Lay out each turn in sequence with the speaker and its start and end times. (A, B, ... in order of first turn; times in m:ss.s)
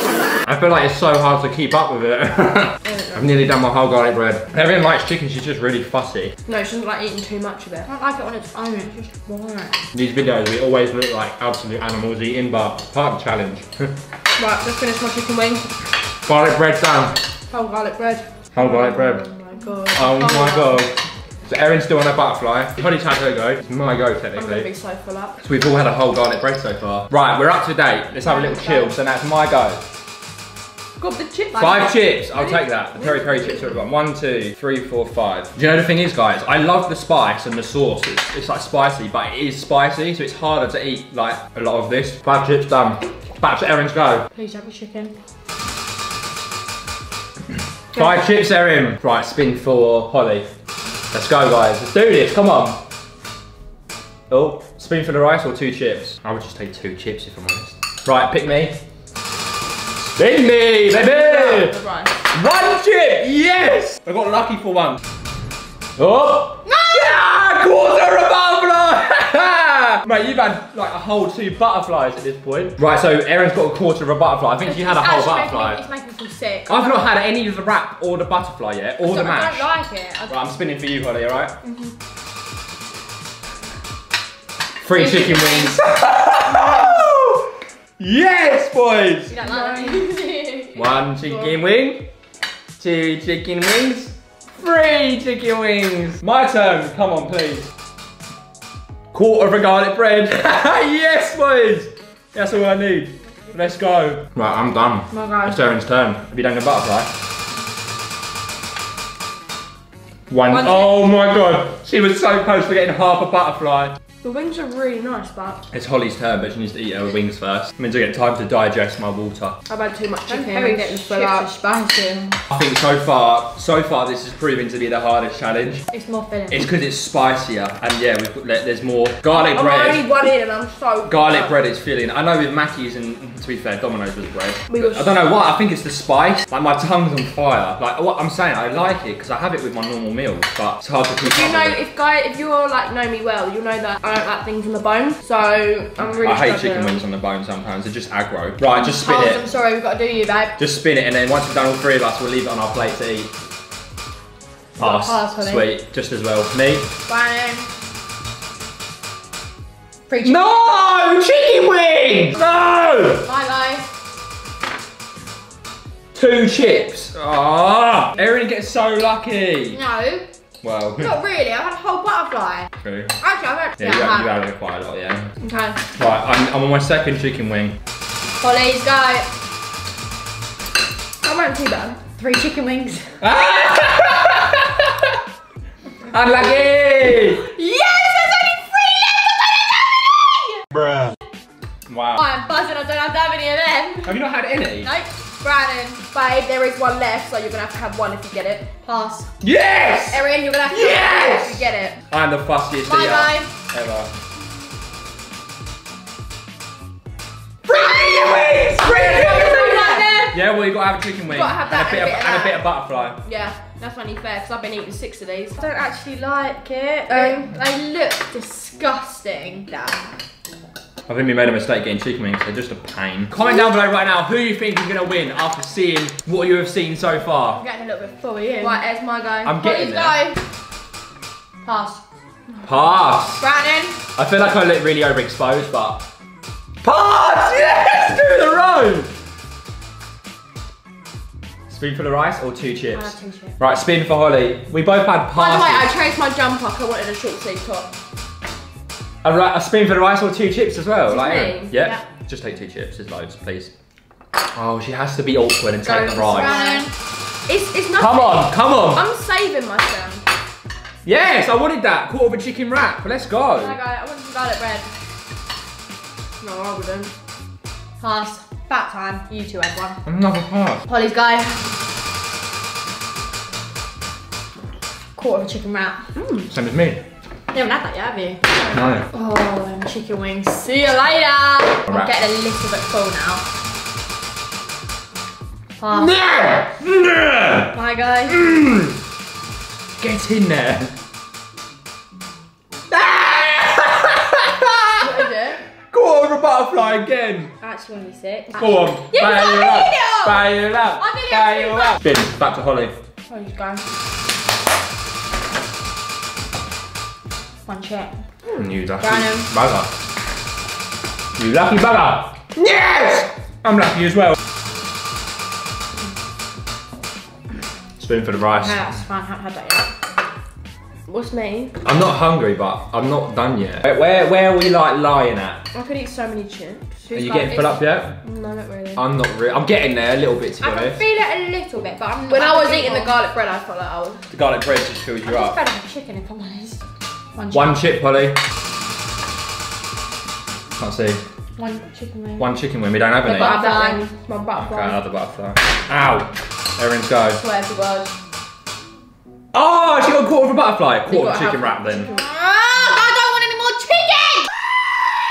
0:00.4-0:06.3 A
0:02.8-0:03.2 B
0:06.5-0:07.9 B
0:07.8-0:09.8 C
0:09.9-0:13.9 A
0:14.4-0:15.7 B
0:16.2-0:17.2 A
0:17.5-0:18.3 C
0:18.5-0:19.2 A
0:18.6-0:20.9 B
0:19.9-0:24.7 A
0:24.3-0:25.3 B
0:25.4-0:29.8 A
0:28.2-0:28.9 C
0:31.0-0:33.8 B
0:31.6-0:44.3 A
0:44.3-0:45.1 C
0:47.9-0:50.5 A
0:51.1-0:52.8 A
0:54.3-0:58.8 A
1:00.0-1:01.8 A
1:00.9-1:02.1 B
1:02.3-1:05.0 A
1:06.0-1:15.8 A
1:14.6-1:17.1 C
1:16.7-1:19.7 A
1:19.0-1:20.4 C
1:20.3-1:21.6 A
1:21.6-1:21.9 B
1:24.8-1:29.3 A
1:25.0-1:25.7 B
1:26.6-1:26.9 B
1:29.3-1:30.8 C
1:29.4-1:30.2 B
1:30.7-1:32.1 A
1:32.8-1:37.7 A
1:39.1-1:47.1 A
1:45.1-1:45.6 C
1:50.3-1:53.9 A
1:50.5-1:51.0 C
1:54.2-1:55.6 B
1:55.7-1:59.6 A
1:59.7-2:01.5 B
2:00.3-2:02.4 C
2:02.5-2:05.8 A
2:05.9-2:06.6 C
2:06.5-2:10.0 A
2:09.3-2:11.5 B
2:11.0-2:21.8 A
2:14.7-2:15.1 B
2:21.2-2:26.9 B
2:26.1-2:29.4 A
2:28.7-2:30.6 C
2:30.6-2:33.3 A
2:34.8-2:36.9 A
2:34.8-2:35.6 C
2:37.1-2:37.7 C
2:40.1-2:40.6 C
2:40.2-2:43.2 A
2:43.2-2:43.9 C
2:46.1-2:49.8 A
2:49.7-2:50.3 C
2:50.6-2:51.1 A
2:51.0-2:52.7 C
2:52.8-2:53.2 A
2:53.2-2:54.3 C
2:53.8-2:55.3 A
2:55.4-2:55.8 B
2:56.0-2:57.8 A
2:58.4-2:59.3 C
3:01.2-3:02.0 B
3:02.2-3:03.2 C
3:03.2-3:05.2 A
3:06.1-3:07.4 A
3:07.3-3:10.6 C
3:10.7-3:11.1 A
3:11.9-3:12.2 A
3:12.2-3:14.2 C
3:14.0-3:14.9 A
3:14.8-3:16.0 C
3:16.1-3:18.7 B
3:18.8-3:19.3 C
3:19.4-3:24.1 A
3:20.1-3:22.0 B
3:22.8-3:23.5 C
3:27.6-3:29.6 A
3:28.7-3:30.2 B
3:28.9-3:30.4 C
3:30.3-3:33.2 A
3:31.3-3:32.6 B
3:33.2-3:35.7 B
3:35.6-3:39.9 C
3:37.1-3:37.5 B
3:41.1-3:47.6 A
3:47.6-3:48.8 C
3:48.6-3:49.6 B
3:49.4-3:50.2 A
3:49.6-3:50.4 C
3:51.6-3:52.0 C
3:52.6-3:53.4 A
3:53.4-3:54.0 C
3:54.2-3:56.0 A
3:56.8-3:59.1 A
4:01.7-4:05.9 A
4:02.9-4:03.6 C
4:05.3-4:07.9 B
4:09.2-4:13.7 A
4:11.1-4:11.7 B
4:11.7-4:12.0 C
4:14.5-4:16.6 A
4:15.8-4:16.8 B
4:16.3-4:16.9 C
4:17.5-4:20.2 B
4:18.0-4:19.0 A
4:21.0-4:23.8 A
4:23.6-4:24.9 C
4:26.4-4:27.1 B
4:28.0-4:30.0 C
4:30.0-4:30.8 A
4:30.9-4:31.6 C
4:35.2-4:36.0 C
4:36.1-4:36.5 B
4:36.5-4:37.0 A
4:37.5-4:38.4 C
4:38.7-4:39.0 A
4:39.1-4:43.4 C
4:41.9-4:42.1 A
4:45.8-4:46.1 C
4:45.9-4:47.8 A
4:47.7-4:48.4 C
4:48.3-4:49.0 A
4:50.0-4:50.9 A
4:52.9-4:55.2 A
4:55.0-4:55.6 B
4:55.9-4:57.5 A
4:57.6-5:02.0 C
4:58.6-5:02.9 A
5:03.3-5:03.8 C
5:07.6-5:08.1 C
5:08.5-5:09.9 A
5:09.0-5:09.5 C
5:11.4-5:14.4 A
5:18.0-5:18.9 A
5:18.5-5:19.9 C
5:21.1-5:21.7 B
5:21.8-5:25.6 A
5:25.7-5:27.0 B
5:27.1-5:27.7 C
5:27.1-5:28.2 A
5:28.2-5:29.0 B
5:29.0-5:31.0 A
5:30.6-5:33.2 C
5:32.3-5:34.2 B
5:34.3-5:35.6 A
5:35.2-5:36.8 C
5:37.3-5:37.8 C
5:37.5-5:38.4 A
5:40.8-5:41.2 A
5:41.6-5:42.5 C
5:42.4-5:43.5 A
5:43.2-5:44.0 C
5:43.3-5:45.0 B
5:44.6-5:47.4 A
5:47.4-5:48.1 B
5:49.5-5:52.1 A
5:51.1-5:52.3 B
5:52.1-5:54.5 C